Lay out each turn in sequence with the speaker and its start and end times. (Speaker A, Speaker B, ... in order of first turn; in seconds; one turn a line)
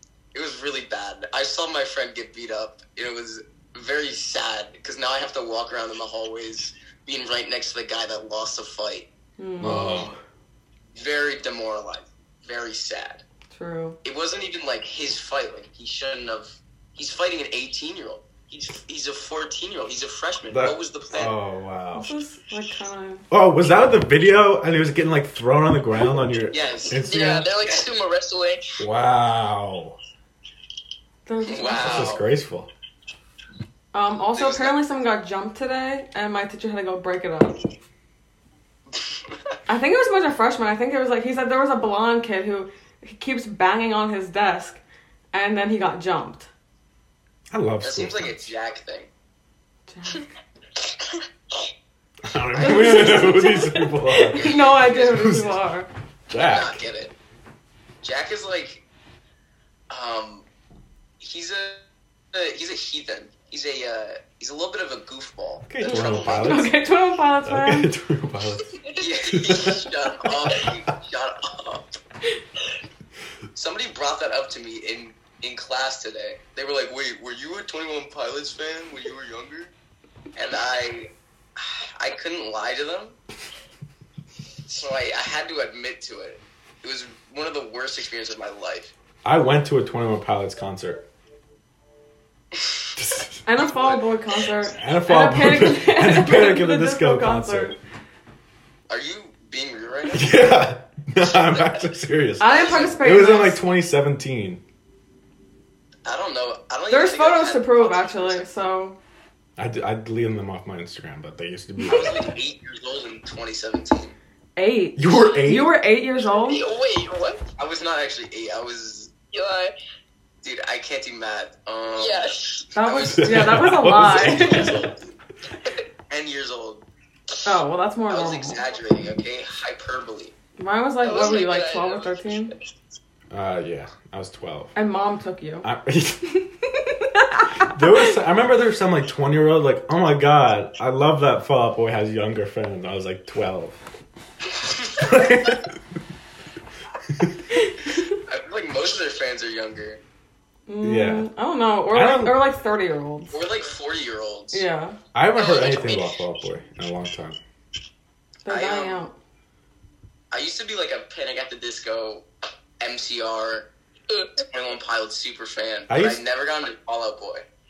Speaker A: 0.3-9.1
Speaker B: 9.4-10.1
Speaker C: 9.6-10.2
Speaker A: 9.6-10.1
Speaker A: 10.9-13.2
Speaker B: 13.5-14.0
Speaker A: 14.0-21.3
Speaker C: 20.5-22.1
Speaker B: 21.9-23.2
Speaker C: 23.3-27.5
Speaker A: 26.5-27.9
Speaker D: 27.1-28.7
Speaker C: 28.8-30.0
Speaker B: 31.2-32.2
Speaker A: 31.4-32.2
Speaker C: 31.8-32.7
Speaker B: 33.9-37.6
Speaker A: 34.3-34.8
Speaker A: 38.9-39.3
Speaker B: 39.7-44.8
Speaker B: 45.3-46.5
Speaker C: 47.5-48.5
Speaker A: 47.8-49.1
Speaker B: 49.9-50.3
Speaker C: 52.2-55.6
Speaker B: 52.6-55.9
Speaker A: 54.3-55.5
Speaker C: 56.3-56.8
Speaker A: 56.3-57.1
Speaker A: 58.0-58.8
Speaker A: 59.9-60.5
Speaker A: 61.2-66.7
Speaker C: 65.7-66.7
Speaker B: 65.9-67.9
Speaker C: 67.5-68.7
Speaker D: 68.8-69.8
Speaker A: 69.0-72.0
Speaker C: 69.2-70.8
Speaker A: 73.5-79.7
Speaker A: 80.3-83.2
Speaker A: 84.7-88.9
Speaker C: 89.2-91.0
Speaker A: 92.5-92.9
Speaker C: 93.0-93.4
Speaker B: 93.5-97.8
Speaker A: 93.6-94.0
Speaker C: 94.8-97.8
Speaker A: 98.9-100.4
Speaker C: 100.1-104.6
Speaker A: 101.2-103.0
Speaker B: 102.4-103.6
Speaker A: 106.0-108.5
Speaker B: 106.9-109.0
Speaker C: 109.6-112.2
Speaker A: 111.8-114.2
Speaker B: 114.5-116.6
Speaker C: 115.0-115.7
Speaker D: 116.5-117.4
Speaker A: 117.5-119.1
Speaker D: 119.3-119.7
Speaker A: 120.4-125.2
Speaker D: 122.0-122.7
Speaker B: 122.8-124.8
Speaker C: 123.1-124.9
Speaker A: 126.1-126.8
Speaker B: 127.4-128.6
Speaker A: 128.1-130.3
Speaker B: 130.6-132.5
Speaker D: 131.0-132.1
Speaker C: 133.3-134.7
Speaker B: 134.8-135.7
Speaker C: 135.6-136.3
Speaker B: 136.6-138.1
Speaker C: 137.6-143.8
Speaker C: 145.0-145.8
Speaker B: 147.5-148.2
Speaker A: 148.2-150.0
Speaker B: 150.7-153.4
Speaker C: 150.8-151.3
Speaker C: 151.9-152.4
Speaker A: 153.3-154.6
Speaker B: 154.5-155.0
Speaker C: 155.1-157.4
Speaker A: 155.4-156.2
Speaker B: 158.4-159.1
Speaker A: 158.5-159.0
Speaker A: 160.3-162.2
Speaker A: 162.8-163.7
Speaker D: 164.1-164.4
Speaker A: 164.5-167.4
Speaker C: 165.9-166.2